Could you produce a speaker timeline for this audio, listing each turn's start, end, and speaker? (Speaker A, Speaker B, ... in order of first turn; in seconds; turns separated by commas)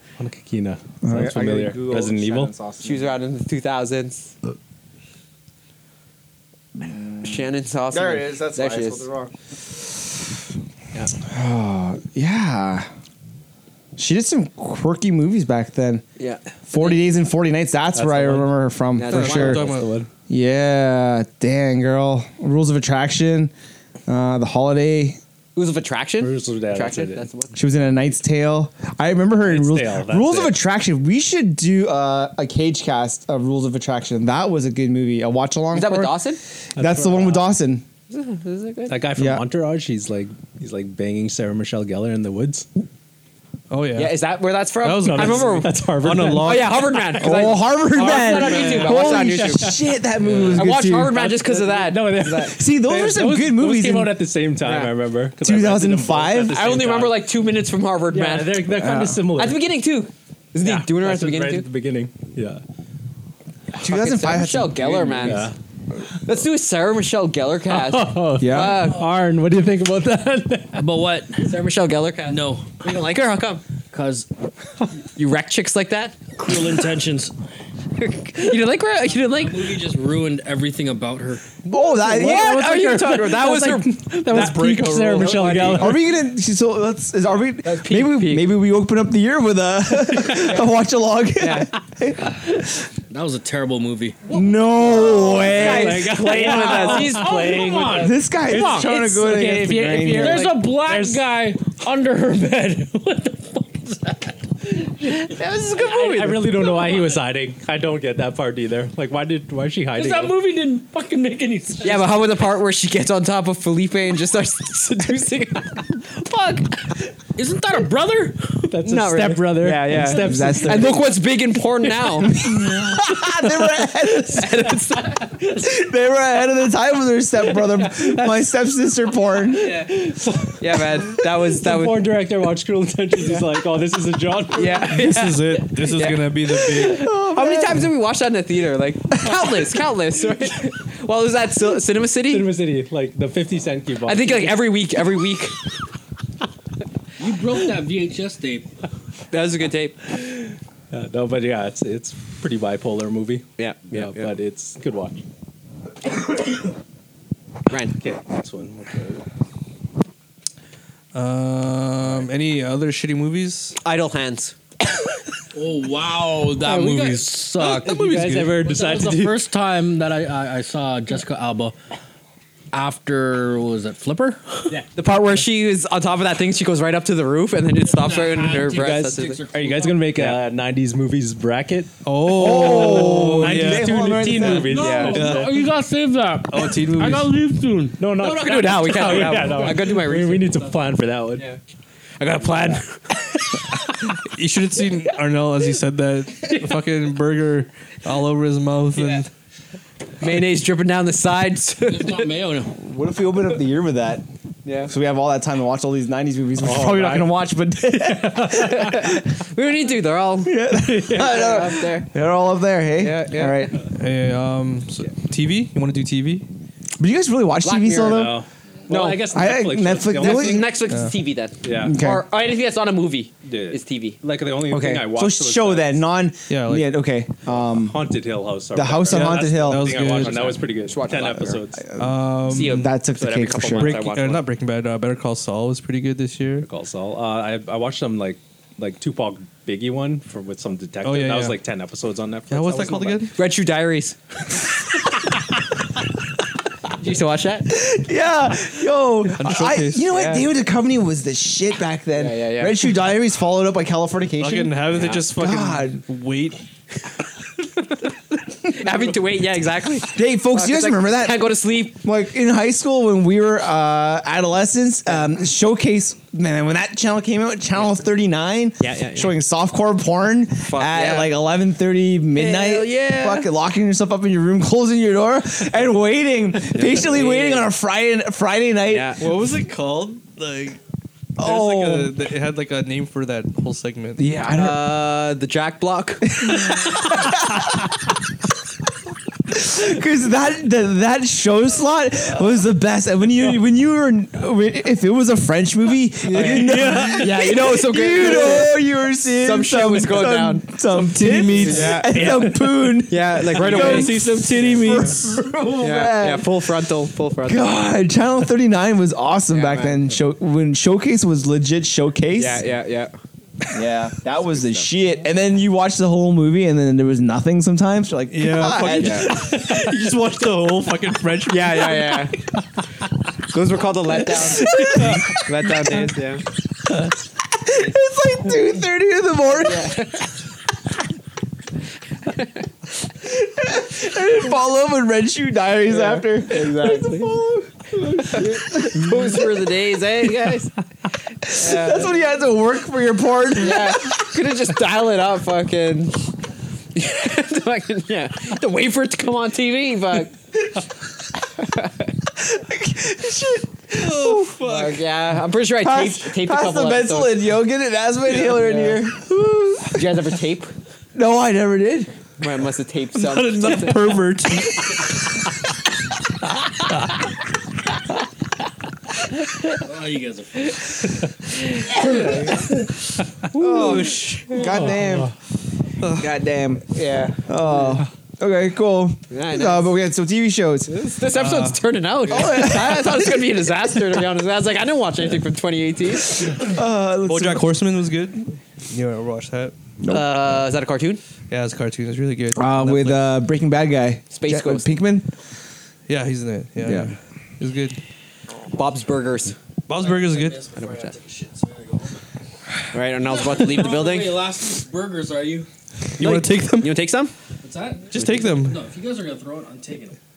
Speaker A: 0.2-2.5, Speaker B: 1.0-3.1, Speaker C: 2.8-4.3, Speaker C: 6.8-9.1, Speaker B: 6.8-9.3, Speaker B: 11.2-12.9, Speaker B: 13.9-16.0, Speaker C: 16.2-17.0, Speaker B: 16.7-19.6, Speaker A: 17.9-20.1, Speaker C: 18.9-19.8, Speaker D: 19.1-19.9, Speaker B: 20.3-23.5, Speaker B: 24.1-25.2, Speaker C: 25.6-27.6, Speaker A: 26.2-27.2, Speaker B: 27.5-37.8, Speaker A: 29.4-30.6, Speaker C: 35.7-36.4, Speaker A: 36.8-37.5, Speaker C: 38.1-39.0, Speaker A: 38.9-42.7, Speaker B: 39.2-39.4, Speaker D: 43.7-44.2, Speaker C: 43.9-45.7, Speaker D: 44.8-47.3, Speaker A: 45.0-46.7, Speaker C: 46.4-49.7, Speaker B: 47.2-51.2, Speaker D: 47.9-49.0, Speaker A: 48.4-57.3, Speaker C: 50.5-52.6, Speaker B: 52.4-54.2, Speaker C: 54.6-54.9, Speaker B: 55.4-56.7, Speaker C: 56.5-58.6, Speaker A: 58.1-59.6, Speaker B: 58.6-59.3, Speaker C: 59.3-61.7, Speaker A: 60.6-62.6, Speaker B: 63.8-65.4, Speaker C: 63.8-65.5, Speaker A: 64.7-65.5, Speaker C: 66.2-69.0, Speaker A: 67.7-71.0, Speaker B: 68.4-68.9, Speaker E: 70.7-71.5, Speaker C: 71.4-73.6, Speaker E: 72.2-72.8, Speaker E: 73.9-74.3, Speaker C: 75.2-76.2, Speaker E: 76.3-77.3, Speaker C: 78.0-79.8, Speaker E: 79.2-81.4, Speaker B: 81.7-82.8, Speaker C: 81.7-85.8, Speaker A: 82.0-86.0, Speaker D: 84.3-85.8, Speaker B: 85.7-92.5, Speaker C: 87.6-88.5, Speaker C: 91.4-91.7, Speaker E: 93.1-107.1, Speaker B: 94.3-96.5, Speaker C: 94.9-98.9, Speaker A: 95.0-97.5, Speaker B: 97.9-100.5, Speaker C: 100.0-100.7, Speaker A: 100.2-101.3, Speaker C: 105.0-106.7, Speaker A: 105.9-110.4, Speaker E: 109.9-112.1, Speaker C: 111.8-117.0, Speaker E: 117.3-118.7, Speaker A: 118.7-121.1, Speaker C: 118.8-122.4, Speaker B: 119.6-121.0, Speaker B: 122.3-124.6, Speaker C: 124.2-125.3, Speaker B: 125.5-129.7, Speaker A: 129.9-135.0, Speaker C: 130.6-132.1, Speaker C: 134.5-142.5, Speaker D: 134.9-137.1, Speaker B: 136.8-137.8, Speaker A: 142.3-144.7, Speaker C: 144.1-145.6, Speaker E: 147.2-148.7, Speaker C: 149.3-150.0, Speaker A: 150.3-155.2, Speaker C: 153.6-154.3, Speaker C: 157.7-157.9, Speaker A: 157.9-159.2, Speaker D: 161.1-163.8, Speaker C: 163.8-164.5, Speaker E: 165.5-171.7, Speaker A: 166.6-169.4, Speaker C: 166.7-167.2, Speaker D: 167.6-168.6, Speaker E: 172.7-174.8, Speaker C: 174.9-179.4, Speaker E: 177.9-180.1, Speaker A: 178.8-185.5, Speaker D: 182.0-184.6, Speaker B: 182.3-185.2, Speaker E: 184.6-189.9, Speaker C: 184.8-185.3, Speaker D: 185.1-185.6, Speaker D: 186.5-187.3, Speaker A: 188.0-191.4, Speaker C: 188.2-190.5, Speaker C: 192.2-193.5, Speaker D: 193.9-199.3, Speaker C: 198.9-199.2, Speaker C: 200.2-202.3, Speaker E: 201.9-202.8, Speaker B: 202.8-204.2, Speaker C: 204.6-204.9, Speaker B: 204.9-209.2, Speaker A: 206.6-209.1, Speaker C: 208.6-212.1, Speaker B: 210.4-213.8, Speaker A: 210.9-211.3, Speaker C: 213.0-213.7, Speaker D: 213.9-216.5, Speaker B: 217.0-218.4, Speaker C: 217.6-218.3, Speaker A: 218.0-220.7, Speaker C: 218.9-219.3, Speaker B: 219.3-220.8, Speaker C: 220.1-224.2, Speaker A: 221.6-222.0, Speaker B: 221.7-222.2, Speaker A: 223.4-226.0, Speaker B: 224.6-228.1, Speaker D: 226.5-227.0, Speaker A: 227.5-231.9, Speaker B: 228.7-230.1, Speaker D: 229.1-230.5, Speaker C: 230.2-231.6, Speaker B: 231.8-234.0, Speaker D: 232.0-232.9, Speaker C: 232.5-234.4, Speaker D: 233.7-236.7, Speaker A: 236.6-243.3, Speaker D: 241.0-241.6, Speaker D: 242.5-243.3, Speaker C: 243.3-244.2, Speaker C: 246.9-247.8, Speaker B: 247.7-256.0, Speaker D: 249.4-250.1, Speaker C: 250.1-250.5, Speaker C: 252.1-252.9, Speaker D: 254.4-256.6, Speaker C: 254.9-255.2, Speaker C: 258.6-262.0, Speaker B: 260.1-279.2, Speaker C: 268.8-269.3, Speaker C: 270.6-271.3, Speaker C: 272.3-273.5, Speaker C: 276.7-277.7, Speaker C: 278.9-279.2, Speaker D: 279.2-280.8, Speaker B: 281.4-282.1, Speaker D: 281.4-284.2, Speaker B: 284.2-285.0, Speaker C: 284.5-286.9, Speaker B: 286.4-287.9, Speaker B: 289.5-306.7, Speaker D: 296.3-297.4, Speaker C: 296.3-300.7, Speaker D: 300.9-302.4, Speaker C: 301.5-302.3, Speaker C: 303.1-305.1, Speaker D: 303.6-305.0, Speaker A: 303.9-304.2, Speaker C: 305.8-307.7, Speaker B: 307.4-312.6, Speaker C: 309.5-310.0, Speaker C: 312.4-313.1, Speaker B: 313.7-319.4, Speaker C: 314.5-314.9, Speaker D: 318.3-322.4, Speaker C: 318.9-319.2, Speaker C: 321.5-322.4, Speaker C: 323.5-326.4, Speaker D: 324.7-325.3, Speaker B: 324.7-325.3, Speaker B: 327.5-330.2, Speaker C: 329.6-330.2, Speaker B: 333.2-339.5, Speaker C: 335.9-337.4, Speaker C: 338.2-340.7, Speaker B: 341.5-344.0, Speaker C: 341.5-342.1, Speaker C: 343.6-346.3, Speaker C: 346.9-350.3, Speaker C: 351.6-352.1, Speaker B: 352.4-354.6, Speaker D: 353.9-355.0, Speaker C: 354.6-357.5, Speaker B: 355.7-360.2, Speaker C: 358.4-359.0, Speaker C: 359.9-360.7, Speaker B: 361.1-362.1, Speaker C: 362.4-364.2, Speaker D: 363.2-365.1, Speaker E: 369.8-371.2, Speaker E: 371.9-372.7, Speaker B: 372.0-372.5, Speaker B: 373.5-375.3, Speaker D: 373.6-374.7, Speaker A: 374.8-375.3, Speaker D: 376.0-376.3, Speaker B: 376.1-380.9, Speaker C: 376.9-377.4, Speaker C: 379.3-379.9, Speaker C: 380.9-386.6, Speaker D: 381.3-381.9, Speaker B: 382.3-383.4, Speaker B: 386.4-387.7, Speaker D: 387.2-389.7, Speaker B: 390.0-390.2, Speaker C: 390.1-391.2, Speaker D: 391.5-393.3, Speaker B: 392.5-395.3, Speaker C: 394.3-394.9, Speaker D: 396.1-398.0, Speaker B: 396.8-397.1, Speaker C: 398.7-399.6, Speaker D: 399.9-400.6, Speaker E: 399.9-402.2, Speaker C: 400.8-401.1, Speaker C: 402.9-404.5, Speaker E: 403.2-405.7, Speaker D: 406.2-407.0, Speaker C: 406.2-407.3, Speaker E: 407.6-410.2, Speaker D: 408.1-408.8